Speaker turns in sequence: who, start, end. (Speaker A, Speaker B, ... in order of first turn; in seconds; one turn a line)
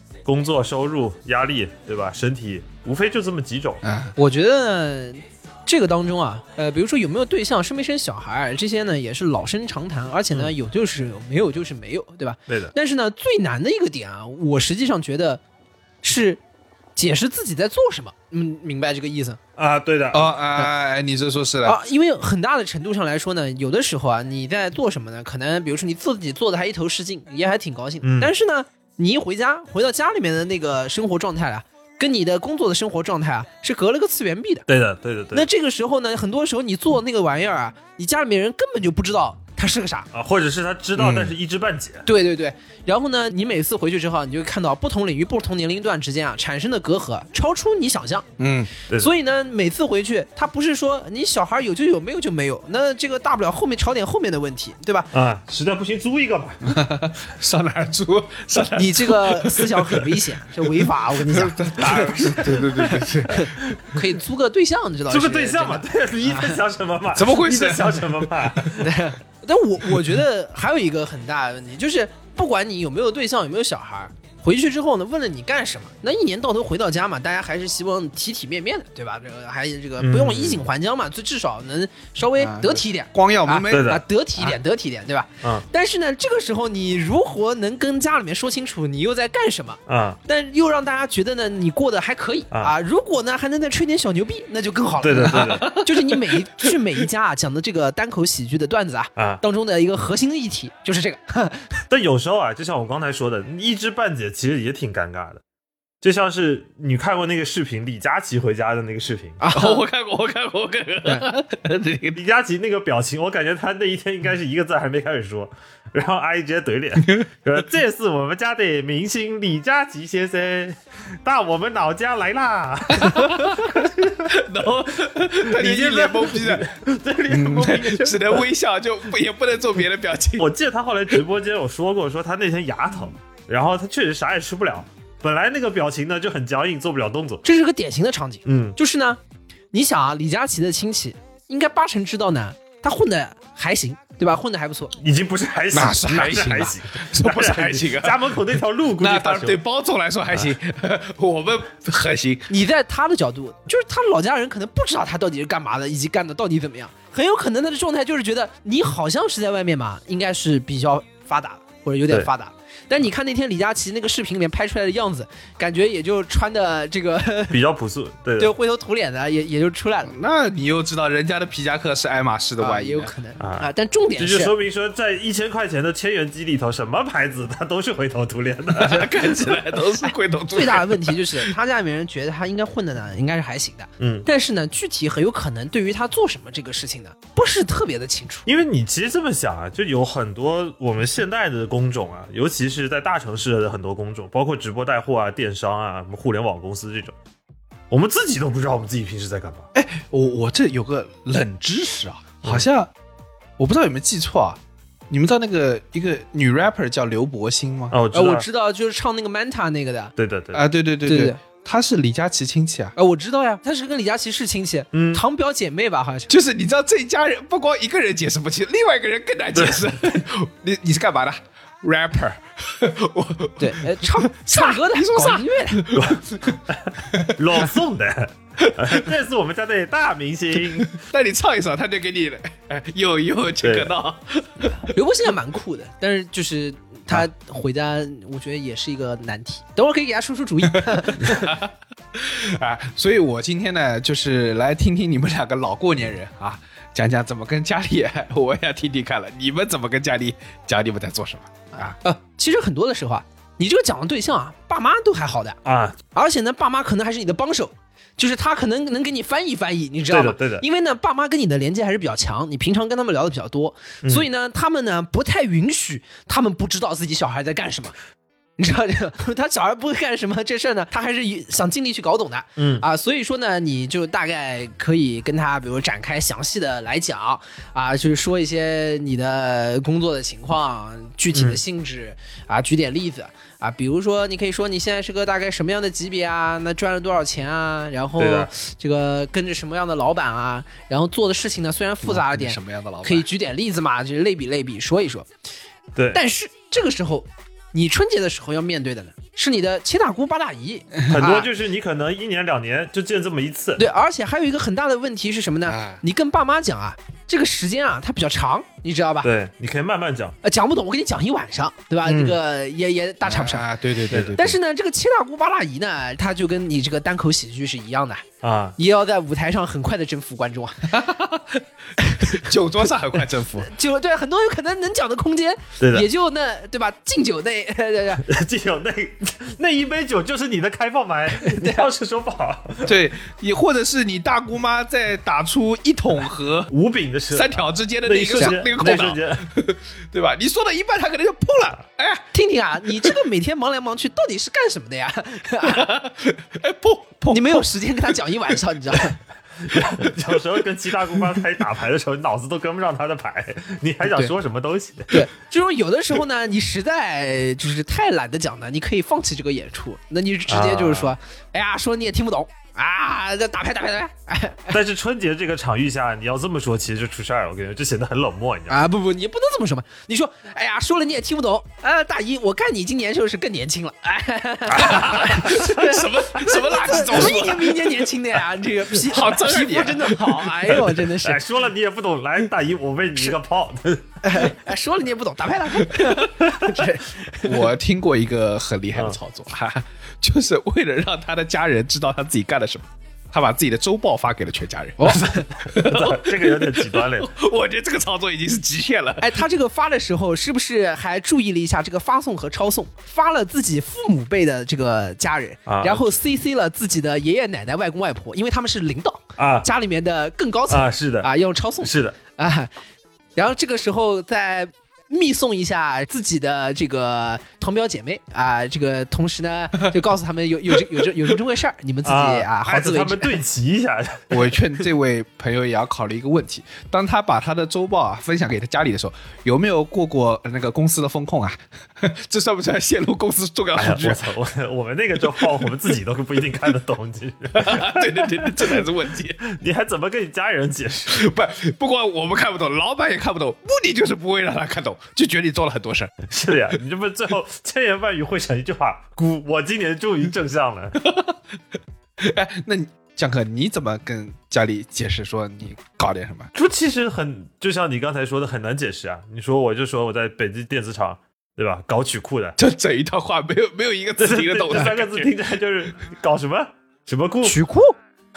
Speaker A: 0.2-3.8
Speaker B: 3.8-4.2
Speaker C: 4.2-15.4
Speaker A: 12.5-12.7
Speaker C: 16.0-16.4
Speaker C: 17.0-19.4
Speaker A: 19.6-20.4
Speaker B: 20.1-21.8
Speaker C: 21.6-34.6
Speaker A: 28.0-28.3
Speaker A: 34.7-35.5
Speaker C: 35.3-40.1
Speaker A: 40.1-42.0
Speaker B: 41.0-41.4
Speaker C: 42.1-48.3
Speaker B: 48.4-48.7
Speaker C: 49.0-55.1
Speaker A: 55.1-56.7
Speaker B: 56.6-63.5
Speaker C: 58.8-62.6
Speaker A: 62.6-64.0
Speaker C: 63.3-66.6
Speaker A: 65.1-69.0
Speaker B: 67.2-68.7
Speaker C: 68.8-101.7
Speaker A: 80.0-80.7
Speaker B: 82.4-84.5
Speaker A: 83.7-84.0
Speaker A: 89.9-90.2
Speaker A: 95.0-95.8
Speaker B: 95.2-96.4
Speaker A: 99.2-99.4
Speaker A: 101.9-105.4
Speaker A: 106.0-109.4
Speaker C: 109.4-109.8
Speaker B: 109.5-112.2
Speaker A: 112.1-124.4
Speaker B: 123.0-126.7
Speaker A: 125.2-128.5
Speaker B: 127.3-130.5
Speaker A: 130.4-137.4
Speaker C: 137.4-139.2
Speaker A: 138.5-138.8
Speaker C: 139.7-144.9
Speaker A: 145.0-149.6
Speaker B: 145.7-148.4
Speaker B: 149.0-152.5
Speaker C: 152.5-167.6
Speaker A: 167.5-168.5
Speaker C: 168.4-170.1
Speaker B: 170.1-173.1
Speaker C: 172.6-174.5
Speaker A: 173.4-179.2
Speaker B: 178.7-181.5
Speaker C: 180.5-188.5
Speaker A: 184.0-184.3
Speaker A: 188.5-197.1
Speaker A: 197.9-199.7
Speaker B: 199.8-202.9
Speaker B: 203.6-204.6
Speaker B: 205.1-208.0
Speaker A: 207.9-208.5
Speaker C: 208.1-210.1
Speaker A: 210.2-210.6
Speaker B: 210.5-213.0
Speaker C: 211.1-211.4
Speaker C: 213.0-216.3
Speaker A: 214.9-215.2
Speaker B: 216.3-226.6
Speaker A: 219.5-220.2
Speaker C: 223.6-226.0
Speaker A: 225.9-231.0
Speaker B: 227.1-227.6
Speaker B: 228.6-229.1
Speaker B: 230.9-234.8
Speaker A: 233.6-233.9
Speaker C: 234.9-241.5
Speaker B: 240.7-252.0
Speaker C: 251.7-255.6
Speaker A: 255.7-256.0
Speaker C: 256.1-267.9
Speaker A: 260.1-260.6
Speaker C: 268.6-295.3
Speaker A: 272.6-272.9
Speaker A: 281.3-281.6
Speaker A: 288.2-288.5
Speaker B: 292.0-293.3
Speaker C: 296.1-301.5
Speaker A: 301.1-303.8
Speaker C: 303.8-309.3
Speaker B: 305.7-306.0
Speaker A: 309.2-310.4
Speaker C: 310.4-313.7
Speaker A: 312.1-312.4
Speaker B: 313.2-314.6
Speaker A: 314.1-314.4
Speaker C: 314.3-318.2
Speaker A: 318.4-318.8
Speaker C: 318.8-321.1
Speaker B: 320.9-321.6
Speaker C: 322.0-322.5
Speaker B: 322.3-323.7
Speaker C: 323.6-328.2
Speaker A: 325.8-326.1
Speaker A: 328.3-333.0
Speaker C: 331.4-331.9
Speaker B: 332.9-336.7
Speaker A: 336.7-339.5
Speaker B: 337.3-342.2
Speaker C: 342.3-345.9
Speaker B: 345.7-347.7
Speaker C: 347.3-349.2
Speaker A: 349.6-355.3
Speaker C: 354.1-354.3
Speaker C: 355.1-364.8
Speaker A: 360.5-361.1
Speaker A: 364.7-368.8
Speaker C: 368.7-381.4
Speaker A: 374.7-375.7
Speaker B: 374.8-378.1
Speaker B: 378.9-380.8
Speaker A: 380.9-384.5
Speaker C: 384.2-387.6
Speaker B: 387.4-399.4
Speaker C: 395.0-395.5
Speaker A: 395.1-397.3
Speaker C: 399.2-412.7
Speaker A: 405.7-406.1
Speaker A: 409.4-409.7
Speaker A: 410.7-411.3
Speaker A: 411.8-412.2
Speaker C: 413.4-423.4
Speaker A: 422.1-424.6
Speaker B: 424.3-434.3
Speaker A: 433.8-438.8
Speaker B: 437.5-439.4
Speaker A: 439.4-441.3
Speaker B: 441.1-446.3
Speaker A: 446.3-451.0
Speaker B: 451.0-451.4
Speaker B: 452.2-456.5
Speaker A: 456.6-462.6
Speaker B: 462.6-465.3
Speaker A: 464.2-467.6
Speaker C: 467.4-468.0